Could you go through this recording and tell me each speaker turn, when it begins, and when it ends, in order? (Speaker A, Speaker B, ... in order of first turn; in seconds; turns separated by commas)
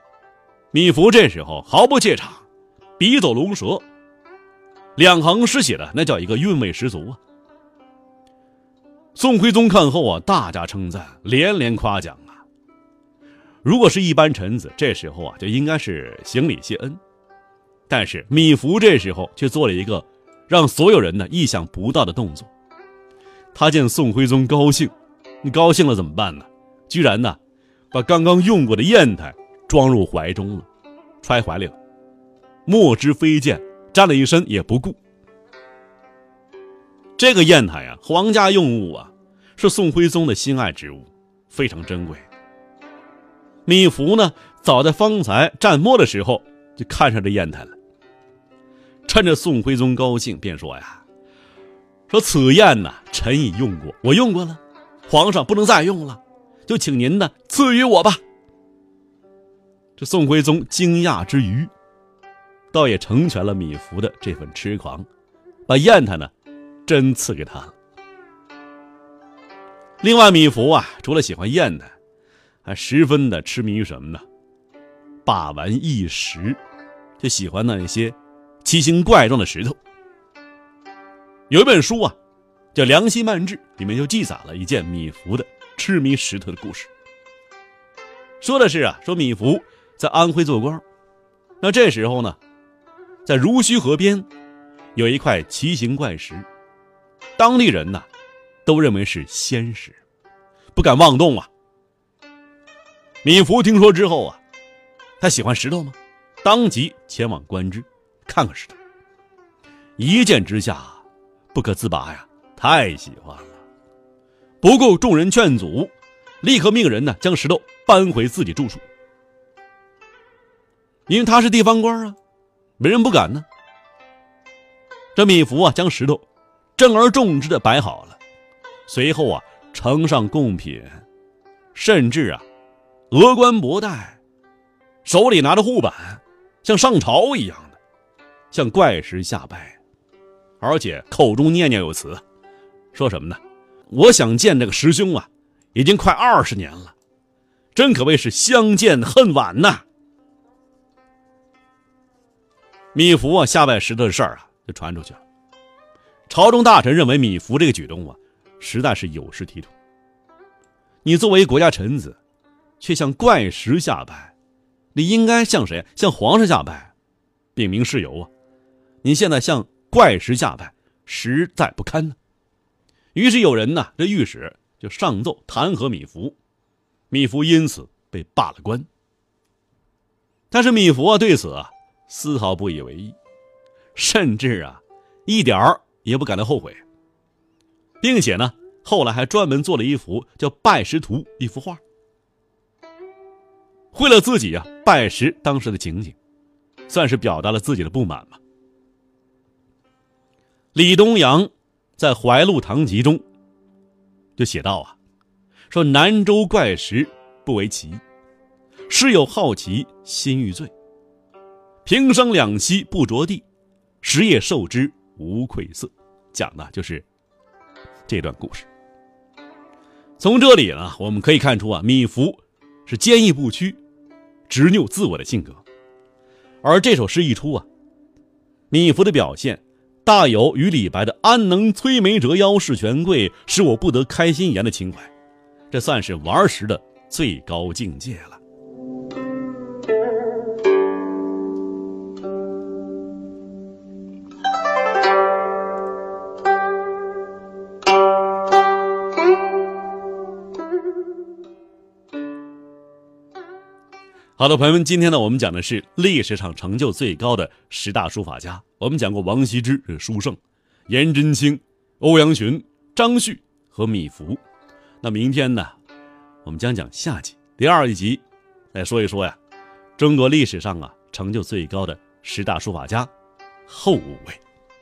Speaker A: 0.7-2.5, Speaker A: 3.0-3.9, Speaker A: 5.0-7.2, Speaker A: 9.1-12.4, Speaker A: 13.6-17.0, Speaker A: 17.9-22.5, Speaker A: 23.5-27.4, Speaker A: 27.9-30.7, Speaker A: 31.2-31.8, Speaker A: 32.6-35.0, Speaker A: 37.2-42.3, Speaker A: 43.6-47.8, Speaker A: 49.0-51.0, Speaker A: 52.1-58.2, Speaker A: 60.0-61.7, Speaker A: 62.7-65.1, Speaker A: 65.7-66.3, Speaker A: 66.8-67.7, Speaker A: 70.0-71.9, Speaker A: 72.6-74.2, Speaker A: 75.2-76.6, Speaker A: 77.2-79.8, Speaker A: 81.5-82.2, Speaker A: 82.7-86.9, Speaker A: 88.4-90.8, Speaker A: 91.6-92.4, Speaker A: 93.2-94.3, Speaker A: 94.9-96.5, Speaker A: 97.3-98.1, Speaker A: 98.6-100.0, Speaker A: 100.7-101.5, Speaker A: 103.2-104.4, Speaker A: 105.2-108.8, Speaker A: 110.0-113.6, Speaker A: 114.6-118.8, Speaker A: 121.1-122.2, Speaker A: 122.8-123.5, Speaker A: 125.1-126.2, Speaker A: 126.8-128.2, Speaker A: 128.9-131.0, Speaker A: 131.7-132.4, Speaker A: 133.1-134.2, Speaker A: 135.0-137.8, Speaker A: 138.5-139.8, Speaker A: 140.6-142.2, Speaker A: 142.9-146.9, Speaker A: 147.7-149.8, Speaker A: 152.9-155.2, Speaker A: 156.3-159.7, Speaker A: 161.0-162.2, Speaker A: 162.8-164.3, Speaker A: 164.9-166.9, Speaker A: 167.5-168.3, Speaker A: 169.0-172.2, Speaker A: 173.1-176.4, Speaker A: 177.1-178.9, Speaker A: 180.5-183.2, Speaker A: 183.9-186.8, Speaker A: 188.0-191.8, Speaker A: 193.9-196.2, Speaker A: 196.9-198.4, Speaker A: 200.7-203.2, Speaker A: 204.4-205.0, Speaker A: 205.7-208.0, Speaker A: 208.9-210.7, Speaker A: 211.8-213.4, Speaker A: 214.0-217.1, Speaker A: 218.1-218.7, Speaker A: 220.2-223.8, Speaker A: 224.5-225.6, Speaker A: 226.6-227.7, Speaker A: 228.7-235.1, Speaker A: 235.7-238.4, Speaker A: 254.4-264.4, Speaker A: 265.0-265.7, Speaker A: 266.4-269.4, Speaker A: 270.0-273.1, Speaker A: 273.7-274.4